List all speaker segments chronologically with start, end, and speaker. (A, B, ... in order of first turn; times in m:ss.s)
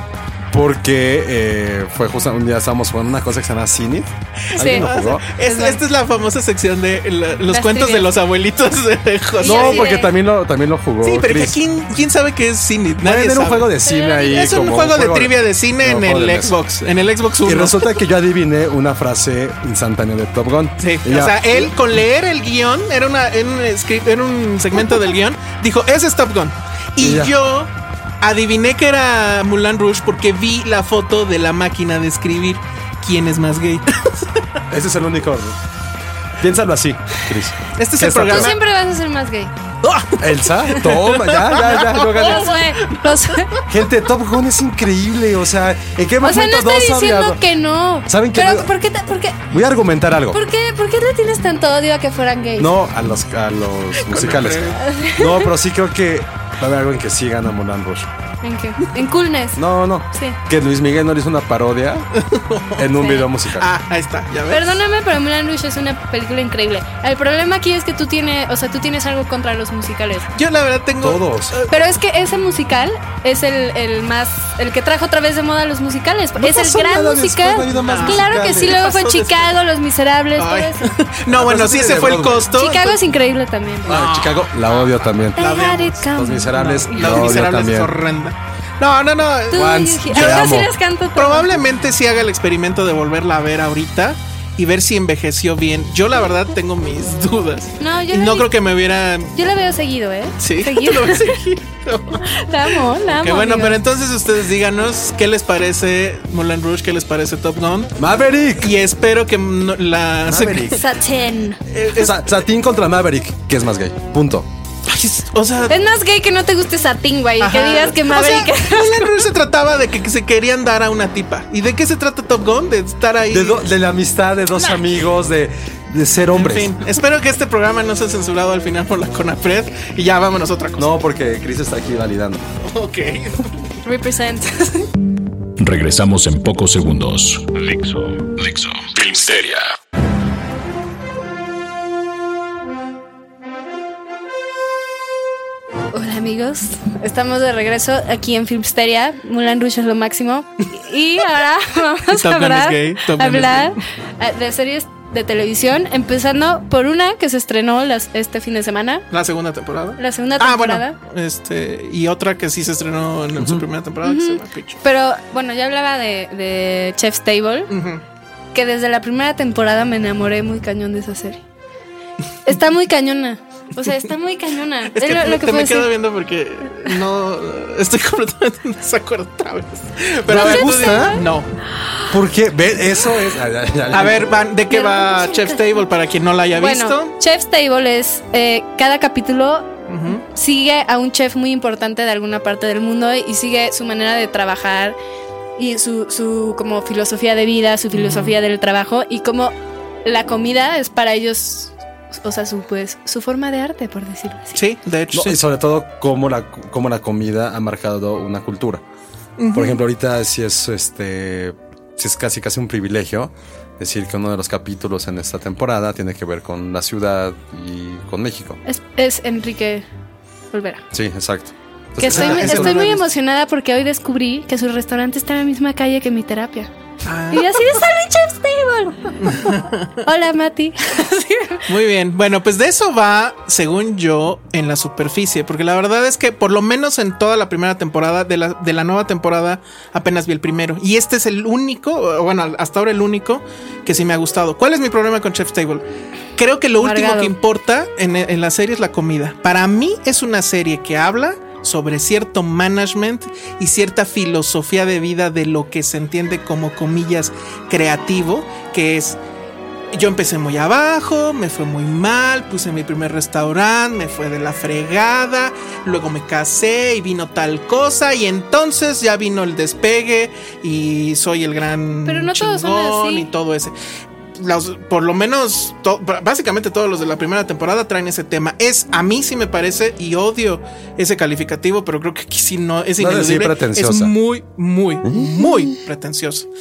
0:00.5-0:05.3 A
0:04.5-0:10.0 B
0:04.6-0:04.8 C
0:05.4-0:05.8 C
0:07.5-0:08.1 C
0:09.4-0:10.1 C
0:09.4-0:11.6 A
0:11.0-0:17.9 B
0:13.0-0:16.5 A
0:13.8-0:14.3 C
0:17.4-0:21.7 A
0:20.8-0:34.4 B
0:27.0-0:27.3 A
0:34.7-0:35.6 A
0:36.4-0:38.5 A
0:37.7-0:38.5 B
0:38.3-0:39.5 C
0:39.8-0:43.6 B
0:40.2-0:42.5 A
0:42.2-0:43.5 C
0:43.7-0:47.4 A
0:46.2-0:49.5 C
0:48.1-0:48.7 A
0:49.5-0:50.4 A
0:50.3-0:52.7 C
0:52.6-0:58.1 A
0:54.0-0:54.8 B
0:54.8-0:55.5 C
0:58.4-0:59.6 C
0:59.6-1:02.0 A
1:02.2-1:02.8 B
1:02.8-1:03.7 A
1:03.0-1:03.3 C
1:03.6-1:04.8 B
1:04.5-1:10.3 C
1:10.3-1:11.7 B
1:11.0-1:11.6 A
1:11.7-1:20.9 C
1:16.4-1:18.8 A
1:17.7-1:19.5 B
1:20.4-1:23.0 B
1:21.3-1:22.6 A
1:22.5-1:24.0 C
1:23.9-1:25.5 A
1:23.9-1:30.6 B
1:25.4-1:27.3 C
1:26.0-1:27.9 A
1:29.5-1:31.5 C
1:29.5-1:30.7 A
1:31.2-1:39.3 B
1:37.8-1:38.5 C
1:39.3-1:41.3 C
1:40.4-1:42.3 B
1:42.2-1:43.8 C
1:43.1-1:47.9 B
1:48.0-1:48.7 A
1:48.6-1:50.8 B
1:50.3-1:50.8 A
1:50.7-1:51.6 C
1:51.7-1:52.2 B
1:51.9-1:54.5 A
1:54.9-1:55.8 B
1:55.7-1:59.2 C
1:57.4-2:03.6 B
2:03.3-2:06.7 A
2:06.3-2:10.9 B
2:10.8-2:12.4 A
2:12.6-2:13.5 B
2:13.8-2:14.9 C
2:15.6-2:19.7 D
2:25.9-2:39.1 C
2:32.1-2:33.8 B
2:39.1-2:44.8 B
2:40.0-2:41.0 C
2:43.4-2:43.6 A
2:44.0-2:47.7 C
2:47.7-2:48.0 B
2:48.5-2:51.4 C
2:52.4-2:55.9 C
2:54.9-3:01.5 B
3:00.3-3:01.2 A
3:00.3-3:01.2 C
3:02.1-3:04.4 A
3:03.9-3:07.1 B
3:04.7-3:05.8 C
3:06.5-3:09.7 C
3:09.9-3:10.2 B
3:10.3-3:15.0 C
3:15.6-3:19.5 C
3:17.9-3:18.3 B
3:20.0-3:24.6 C
3:24.6-3:25.4 B
3:25.1-3:28.8 A
3:29.4-3:29.8 B
3:29.5-3:38.6 A
3:38.6-3:39.8 C
3:40.5-3:40.8 C
3:40.9-3:42.9 A
3:42.0-3:46.7 C
3:42.0-3:43.0 B
3:47.0-3:47.5 B
3:47.3-3:49.1 C
3:49.2-3:49.9 B
3:50.0-3:51.6 C
3:51.7-4:05.8 B
4:06.4-4:19.2 B
4:06.8-4:07.3 C
4:19.9-4:33.7 B
4:32.0-4:33.3 C
4:34.4-4:46.5 B
4:43.0-4:44.1 A